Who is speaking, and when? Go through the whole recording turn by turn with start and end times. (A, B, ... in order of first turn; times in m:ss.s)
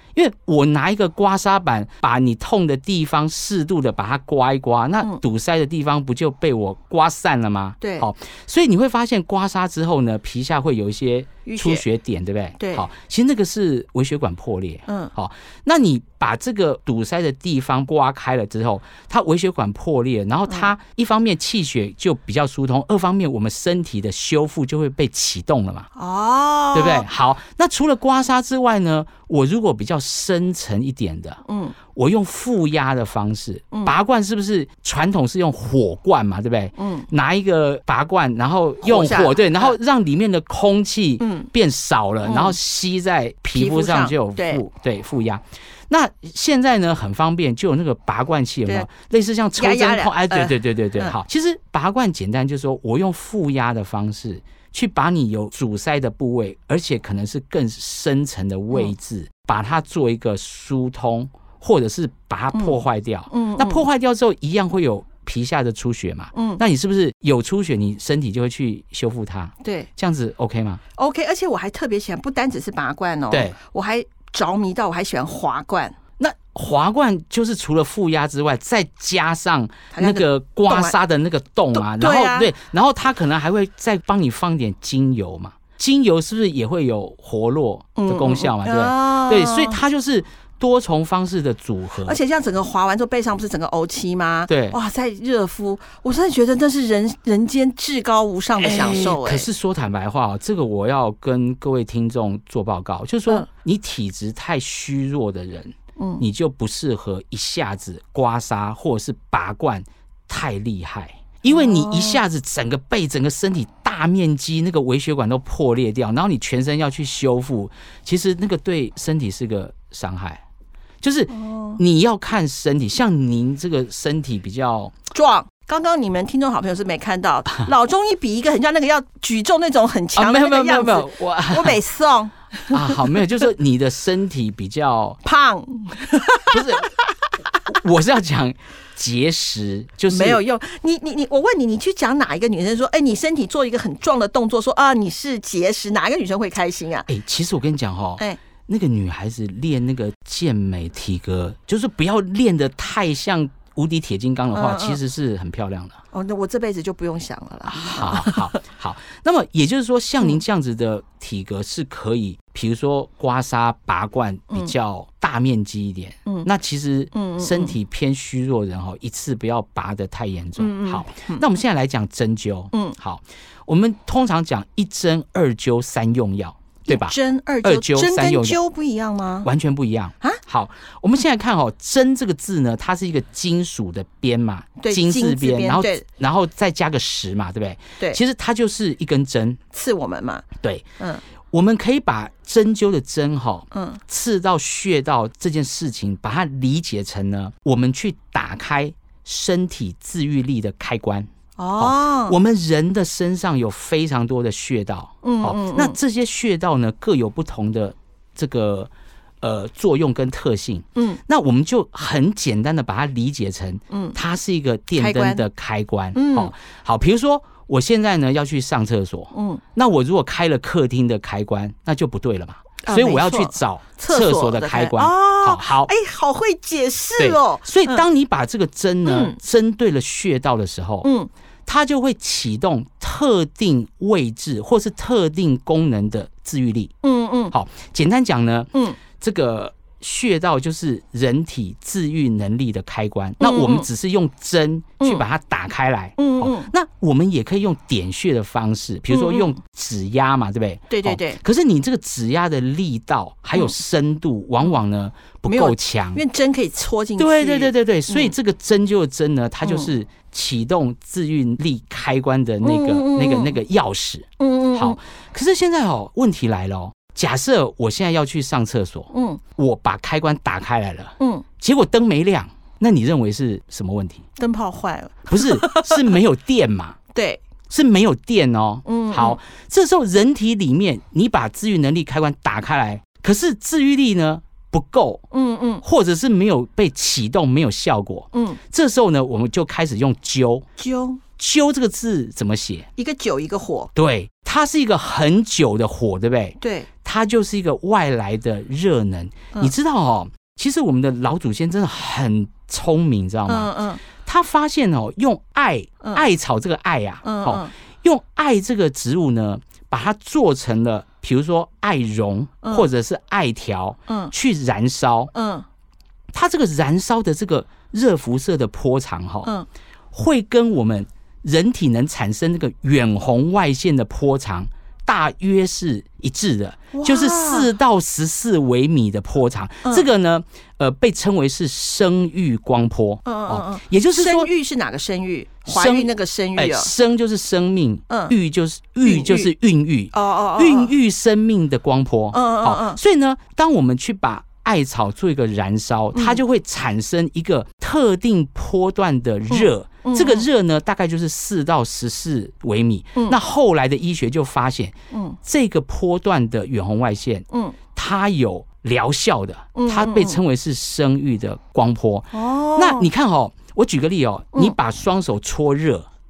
0:00.1-0:25.9 A
0:07.8-0:08.1 B
0:11.5-0:11.8 B
0:12.6-0:12.9 B
0:14.9-0:15.1 B
0:26.0-0:27.1 B
0:26.7-0:31.4 A
0:31.5-0:31.8 B
0:31.9-1:10.8 A
0:36.8-0:37.1 B
0:38.8-0:39.8 B
0:41.2-0:41.5 B
0:42.2-0:42.6 B
0:43.5-0:44.6 B
0:49.6-0:51.2 B
1:02.5-1:03.9 B
1:06.3-1:06.6 B
1:09.6-1:09.9 B
1:11.0-1:16.0 B
1:13.3-1:13.6 A
1:16.2-1:32.2 A
1:19.9-1:21.0 B
1:21.7-1:22.5 B
1:28.0-1:29.8 B
1:32.0-1:39.5 B
1:34.5-1:34.8 A
1:38.6-2:00.4 A
1:46.0-1:46.2 B
1:51.5-1:52.2 B
2:01.0-2:04.9 A
2:01.3-2:01.8 B
2:05.1-2:13.2 B
2:10.2-2:11.8 A
2:12.7-2:15.2 A
2:15.2-2:16.9 B
2:16.5-2:16.9 A
2:17.7-2:20.4 A
2:20.1-2:27.1 B
2:27.1-2:36.0 A
2:34.5-2:35.0 B
2:36.1-2:38.6 B
2:37.7-2:58.6 A
2:47.1-2:47.8 B
2:50.6-2:51.5 B
2:56.9-2:59.5 B
2:59.4-3:09.6 A
3:04.8-3:06.0 B
3:09.7-3:10.5 B
3:11.5-3:45.9 A
3:13.7-3:14.0 B
3:21.6-3:22.4 B
3:25.2-3:26.0 B
3:33.9-3:34.2 B
3:35.0-3:35.4 B
3:36.2-3:36.5 B
3:39.3-3:39.6 B
3:42.8-3:48.0 B
3:47.2-3:51.1 A
3:49.0-3:49.4 B
3:51.0-3:51.3 B
3:51.7-3:56.9 A
3:57.0-3:57.5 B
3:57.5-4:16.2 A
3:58.7-3:59.0 B
4:03.4-4:03.9 B
4:05.0-4:05.2 B
4:06.2-4:06.7 B
4:09.1-4:09.6 B
4:10.9-4:11.4 B
4:15.5-4:18.4 B
4:17.2-4:34.2 A
4:19.6-4:19.9 B
4:22.6-4:23.6 B
4:24.4-4:25.0 B
4:29.1-4:29.4 B
4:31.2-4:31.4 B
4:34.4-4:36.2 B
4:35.3-4:37.0 A
4:37.1-4:37.4 B
4:37.7-4:45.2 A
4:38.9-4:39.4 B
4:45.3-4:45.8 B
4:45.8-4:50.6 A
4:48.3-4:48.6 B
4:50.8-4:51.2 B
4:51.4-4:52.9 A
4:53.0-4:53.9 B
4:54.0-5:15.3 A
4:56.6-4:56.9 B
5:03.5-5:04.0 B
5:06.0-5:06.3 B
5:07.2-5:07.7 B
5:12.6-5:12.9 B
5:14.1-5:14.3 B
5:15.3-5:15.7 B
5:16.3-5:19.5 A
5:20.1-5:34.5 A
5:26.9-5:27.7 B
5:29.8-5:30.1 B
5:33.2-5:36.9 B
5:35.7-6:06.1 A
5:38.1-5:38.4 B
5:39.0-5:39.5 B
5:40.1-5:40.9 B
5:42.3-5:43.0 B
5:46.1-5:46.4 B
5:49.5-5:50.5 B
5:55.1-5:55.4 B
5:57.5-5:57.8 B
5:59.8-6:00.4 B
6:02.3-6:03.1 B